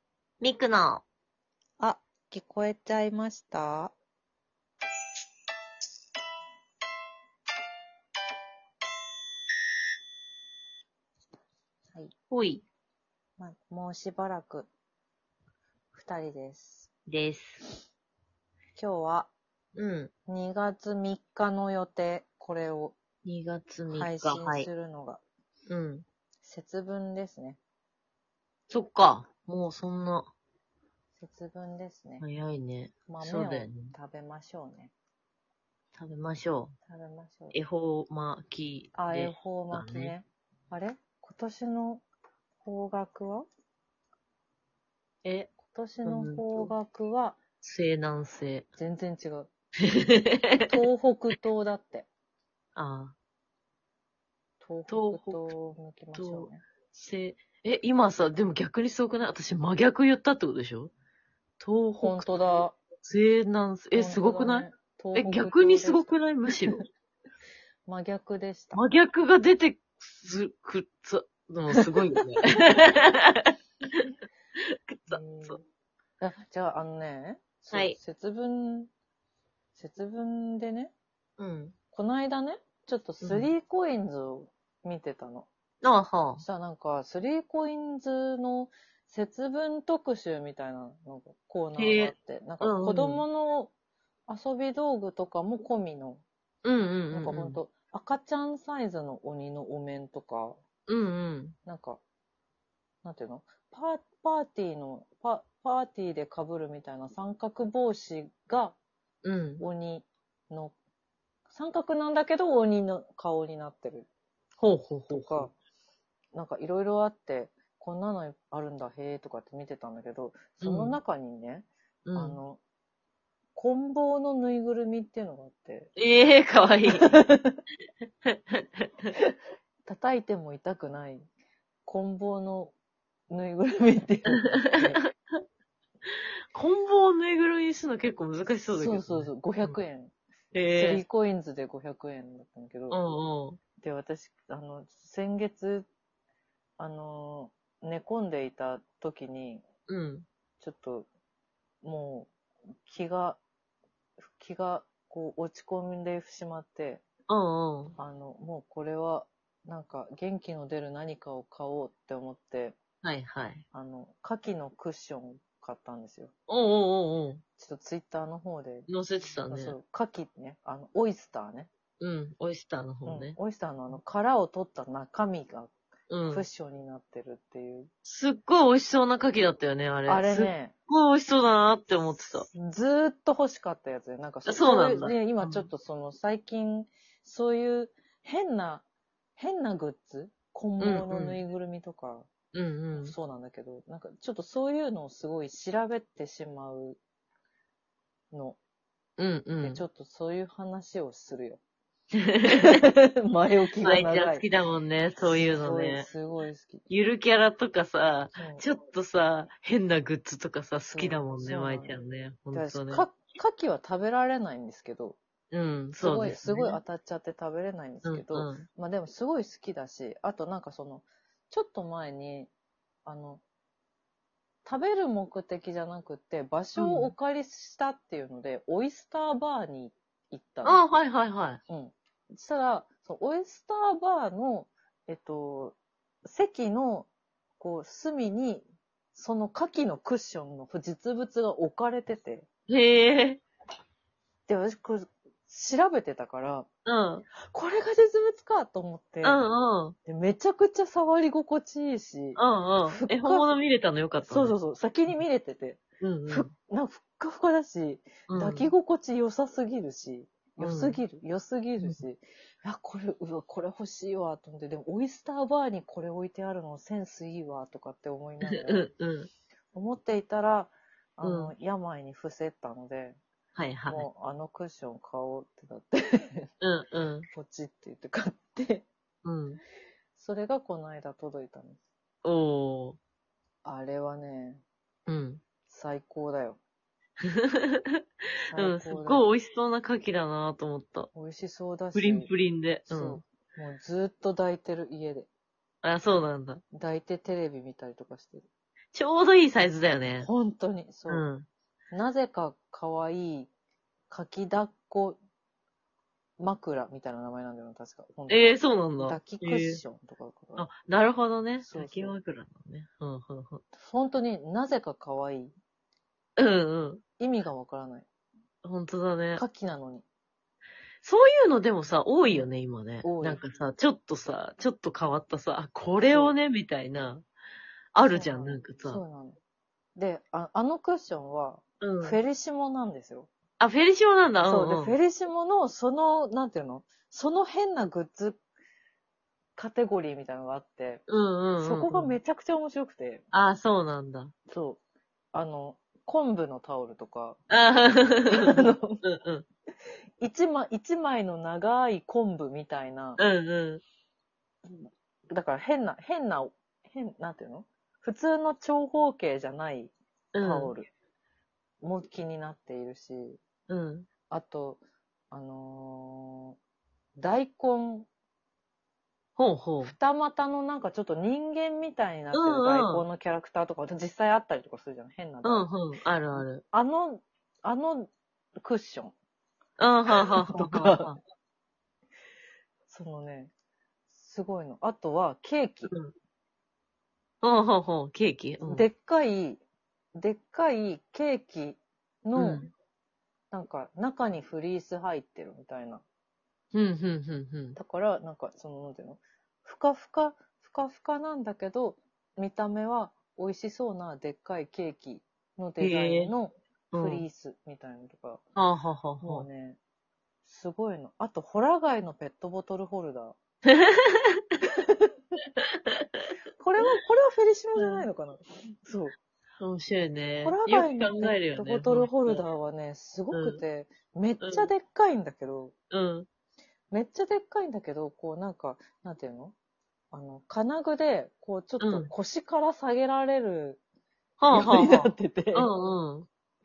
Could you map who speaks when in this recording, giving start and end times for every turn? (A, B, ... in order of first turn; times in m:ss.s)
0:00.4-0:01.0 A
0:01.8-0:03.9 B
0:12.3-0:12.6 A
0:13.4-0:14.7 B
0:15.9-0:16.9 B
0:17.0-0:17.6 A
0:18.8-0:19.3 B
0:19.7-0:20.1 A
0:20.3-0:23.0 B
0:23.2-0:24.7 A
0:23.9-0:25.2 B
0:25.7-0:26.0 A
0:26.4-0:27.6 B
0:28.7-0:30.3 A
0:31.2-0:32.2 B
0:32.2-0:33.9 A
0:33.1-0:34.9 B
0:36.0-0:36.7 A
0:36.8-0:37.6 B
0:37.5-0:40.1 A
0:38.9-0:42.0 B
0:42.6-0:43.5 B
0:45.2-0:45.5 A
0:45.6-0:47.4 B
0:46.0-0:46.7 A
0:47.6-0:48.7 A
0:48.8-0:49.5 B
0:49.9-0:50.7 A
0:50.7-0:52.1 B
0:52.8-0:53.1 A
0:54.6-0:56.6 B
0:54.9-0:55.5 A
0:56.2-1:00.9 A
1:01.6-1:06.8 A
1:02.0-1:02.8 B
1:03.9-1:06.2 B
1:07.8-1:08.8 B
1:08.7-1:13.5 A
1:14.6-1:15.6 A
1:15.1-1:15.6 B
1:16.2-1:18.9 B
1:17.7-1:18.0 A
1:19.7-1:20.9 B
1:21.4-1:21.7 A
1:21.9-1:25.5 B
1:23.2-1:23.5 A
1:25.8-1:26.4 A
1:26.4-1:33.7 B
1:31.8-1:33.2 A
1:34.3-1:36.2 B
1:36.6-1:37.6 A
1:37.1-1:40.6 B
1:40.9-1:41.6 A
1:41.6-1:42.0 B
1:43.0-1:48.8 B
1:49.2-1:49.6 A
1:49.6-1:50.7 B
1:51.5-1:54.1 B
1:54.6-1:55.5 A
1:55.1-1:55.5 B
1:56.3-2:02.6 B
2:00.6-2:01.0 A
2:02.0-2:02.4 A
2:03.6-2:05.9 B
2:06.0-2:07.2 A
2:06.9-2:07.6 B
2:08.2-2:09.1 A
2:09.8-2:11.3 B
2:11.8-2:12.7 B
2:13.3-2:15.0 B
2:14.3-2:14.8 A
2:16.1-2:19.8 A
2:18.7-2:20.1 B
2:20.5-2:21.0 A
2:20.7-2:23.0 B
2:22.9-2:23.6 A
2:23.8-2:25.8 B
2:26.8-2:29.6 B
2:29.9-2:30.2 A
2:30.6-2:31.1 B
2:31.8-2:32.3 B
2:32.8-2:33.4 B
2:34.2-2:37.0 B
2:37.3-2:37.9 A
2:38.0-2:42.8 B
2:43.0-2:43.6 A
2:43.7-2:46.3 B
2:46.5-2:47.4 A
2:47.6-2:48.9 B
2:48.9-2:49.8 A
2:49.5-2:51.7 B
2:52.0-2:53.4 A
2:53.0-2:55.7 B
2:56.1-2:56.4 A
2:56.3-2:57.9 B
2:58.0-3:02.5 A
3:00.1-3:00.7 B
3:02.5-3:08.8 B
3:04.4-3:05.7 A
3:09.4-3:12.3 B
3:10.8-3:11.4 A
3:12.5-3:13.1 A
3:12.9-3:17.0 B
3:18.3-3:18.6 B
3:19.2-3:19.8 A
3:19.6-3:21.6 B
3:22.1-3:22.8 A
3:22.5-3:24.5 B
3:23.8-3:26.0 A
3:25.2-3:26.8 B
3:26.9-3:33.1 A
3:28.3-3:28.6 B
3:30.9-3:32.0 B
3:32.5-3:35.2 B
3:35.5-3:36.8 A
3:36.0-3:42.5 B
3:38.0-3:38.6 A
3:43.0-3:43.4 B
3:44.6-3:50.9 B
3:46.8-3:47.1 A
3:50.6-3:51.6 A
3:51.7-4:02.5 B
4:02.7-4:03.4 A
4:04.5-4:06.7 B
4:06.8-4:07.2 A
4:07.4-4:09.4 B
4:09.2-4:09.9 A
4:10.0-4:13.5 B
4:12.4-4:14.6 A
4:14.2-4:28.9 B
4:16.0-4:16.5 A
4:18.3-4:18.7 A
4:20.6-4:21.0 A
4:28.4-4:29.3 A
4:29.7-4:33.2 B
4:31.2-4:31.5 A
4:33.5-4:34.1 A
4:33.9-4:36.5 B
4:36.6-4:37.3 A
4:37.3-4:38.9 B
4:39.2-4:39.6 A
4:40.1-4:41.8 B
4:42.2-4:43.0 A
4:43.6-4:44.6 B
4:45.1-4:45.4 A
4:45.7-4:46.6 B
4:47.3-4:48.0 A
4:48.4-4:49.3 B
4:48.5-4:51.1 A
4:51.1-4:52.3 B
4:51.9-4:53.2 A
4:52.9-4:55.3 B
4:55.8-4:56.6 A
4:56.7-4:58.4 B
4:58.9-5:00.3 A
5:00.2-5:01.2 B
5:01.1-5:01.5 A
5:01.9-5:03.5 B
5:04.1-5:05.2 B
5:06.4-5:10.7 B
5:08.3-5:09.8 A
5:10.6-5:13.6 A
5:11.6-5:12.2 B
5:13.7-5:15.5 B
5:16.4-5:17.0 A
5:17.2-5:18.1 B
5:18.6-5:19.4 A
5:19.4-5:20.0 B
5:21.0-5:27.2 A
5:23.0-5:23.4 B
5:26.0-5:26.4 B
5:27.9-5:29.0 A
5:28.1-5:29.4 B
5:30.0-5:33.3 B
5:31.8-5:32.2 A
5:33.6-5:35.0 A
5:34.4-5:38.4 B
5:39.6-5:41.0 B
5:41.1-5:42.1 A
5:41.6-5:43.2 B
5:43.3-5:44.3 A
5:44.5-5:44.8 B
5:45.3-5:47.4 B
5:47.5-5:49.4 A
5:48.3-5:49.0 B
5:50.2-5:53.2 B
5:53.2-5:53.8 A
5:54.6-6:00.9 B
6:00.3-6:00.7 A
6:01.8-6:03.4 B
6:03.7-6:04.1 A
6:04.3-6:06.6 B
6:07.2-6:08.1 B
6:09.4-6:09.9 A
6:09.8-6:15.7 B
6:12.3-6:13.0 A
6:15.4-6:16.6 A
6:16.3-6:18.1 B
6:18.6-6:19.1 B
6:19.8-6:21.2 A
6:20.1-6:21.1 B
6:22.9-6:23.5 B
6:24.1-6:25.9 B
6:27.4-6:28.9 A
6:28.6-6:29.6 B
6:30.2-6:32.6 B
6:32.4-6:32.7 A
6:33.5-6:36.0 B
6:36.7-6:37.8 A
6:37.8-6:48.4 B
6:45.8-6:46.3 A
6:46.9-6:47.2 A
6:48.6-6:49.4 A
6:49.2-6:49.8 B
6:50.4-6:53.4 B
6:53.7-6:54.4 A
6:56.6-6:59.1 B
6:57.8-6:58.0 A
6:59.6-7:02.4 A
7:00.4-7:05.7 B
7:03.3-7:03.6 A
7:04.4-7:04.7 A
7:05.9-7:06.3 A
7:06.9-7:09.5 B
7:10.1-7:13.8 B
7:11.8-7:12.1 A
7:14.4-7:16.3 A
7:14.5-7:15.7 B